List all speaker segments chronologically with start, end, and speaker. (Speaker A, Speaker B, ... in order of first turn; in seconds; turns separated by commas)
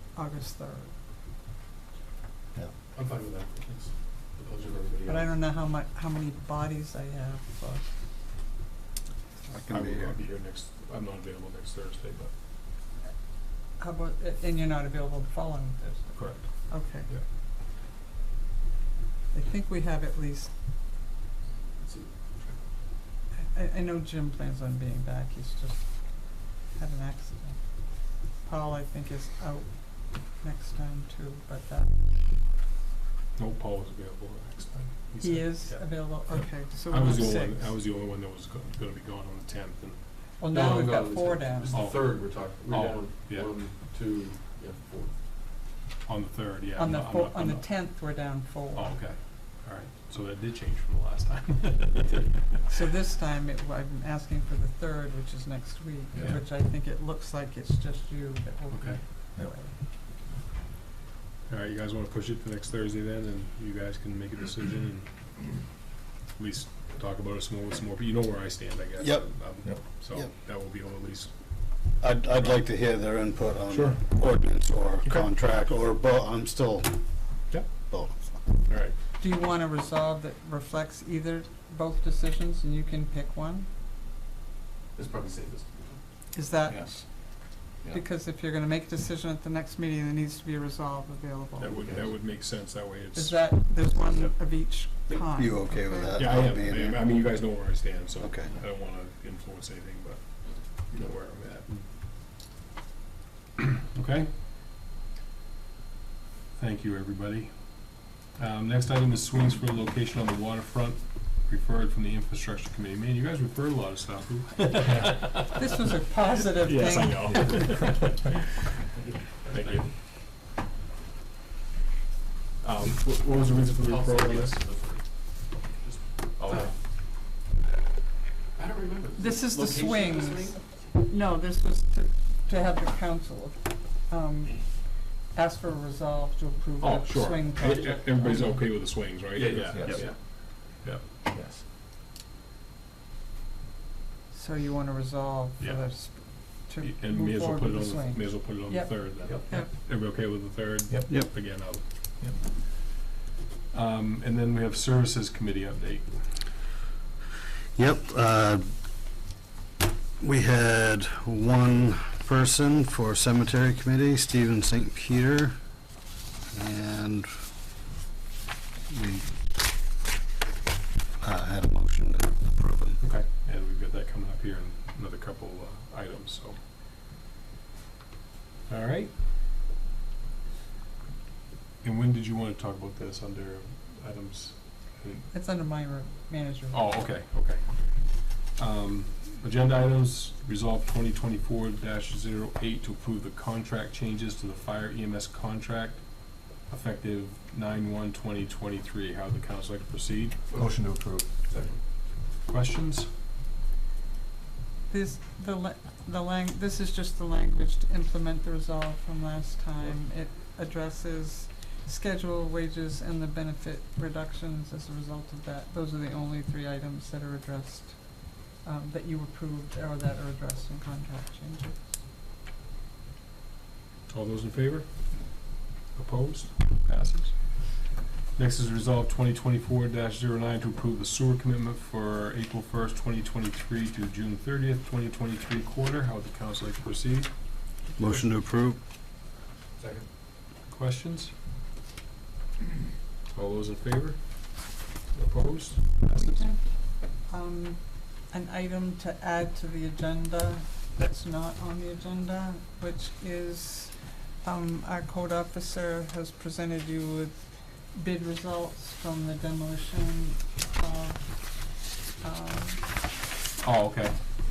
Speaker A: 0.1-1.0, Speaker B: 2.9-5.4, Speaker A: 5.1-7.9, Speaker C: 9.4-10.2, Speaker D: 9.7-12.3, Speaker A: 13.8-17.1, Speaker D: 16.1-17.2, Speaker A: 19.3-20.5, Speaker B: 21.8-22.6, Speaker A: 23.3-32.2, Speaker D: 33.4-40.3, Speaker A: 35.2-37.8, Speaker A: 40.4-41.8, Speaker B: 40.5-45.2, Speaker D: 41.7-43.6, Speaker D: 46.0-52.4, Speaker A: 46.8-49.0, Speaker A: 52.7-59.7, Speaker B: 56.1-56.4, Speaker D: 58.8-59.0, Speaker D: 61.5-65.7, Speaker D: 66.3-72.7, Speaker C: 69.0-70.3, Speaker C: 72.0-78.4, Speaker D: 73.7-74.0, Speaker D: 75.0-75.3, Speaker D: 77.5-77.9, Speaker D: 78.7-79.0, Speaker A: 79.2-83.7, Speaker B: 85.0-86.0, Speaker A: 86.3-91.8, Speaker B: 86.7-88.0, Speaker D: 91.6-93.6, Speaker B: 91.7-92.2, Speaker A: 93.2-96.3, Speaker B: 94.1-94.3, Speaker C: 95.2-97.6, Speaker D: 96.1-101.9, Speaker C: 98.2-98.5, Speaker D: 103.6-104.4, Speaker D: 106.6-115.6, Speaker A: 115.5-117.7, Speaker D: 116.6-118.4, Speaker B: 119.0-119.9, Speaker D: 119.5-119.9, Speaker D: 122.6-124.8, Speaker B: 123.2-125.7, Speaker D: 125.8-126.8, Speaker B: 126.4-126.8, Speaker B: 128.6-130.9, Speaker A: 129.2-138.6, Speaker D: 136.8-141.1, Speaker B: 138.4-141.6, Speaker A: 144.3-149.7, Speaker D: 145.6-152.6, Speaker B: 149.2-149.7, Speaker B: 150.9-152.4, Speaker D: 153.7-156.4, Speaker C: 157.8-158.7, Speaker C: 160.2-165.6, Speaker C: 166.5-167.3, Speaker C: 168.9-169.3, Speaker C: 171.2-173.0, Speaker D: 173.0-176.6, Speaker D: 178.7-179.2, Speaker D: 181.8-185.3, Speaker A: 185.3-187.0, Speaker D: 186.7-200.5, Speaker B: 200.5-201.8, Speaker C: 200.8-201.2, Speaker D: 202.4-203.1, Speaker A: 204.9-222.0, Speaker D: 224.1-237.8, Speaker C: 238.0-238.8, Speaker B: 239.8-240.1, Speaker D: 240.7-241.3, Speaker D: 243.3-246.5, Speaker A: 246.1-262.9, Speaker D: 263.6-264.2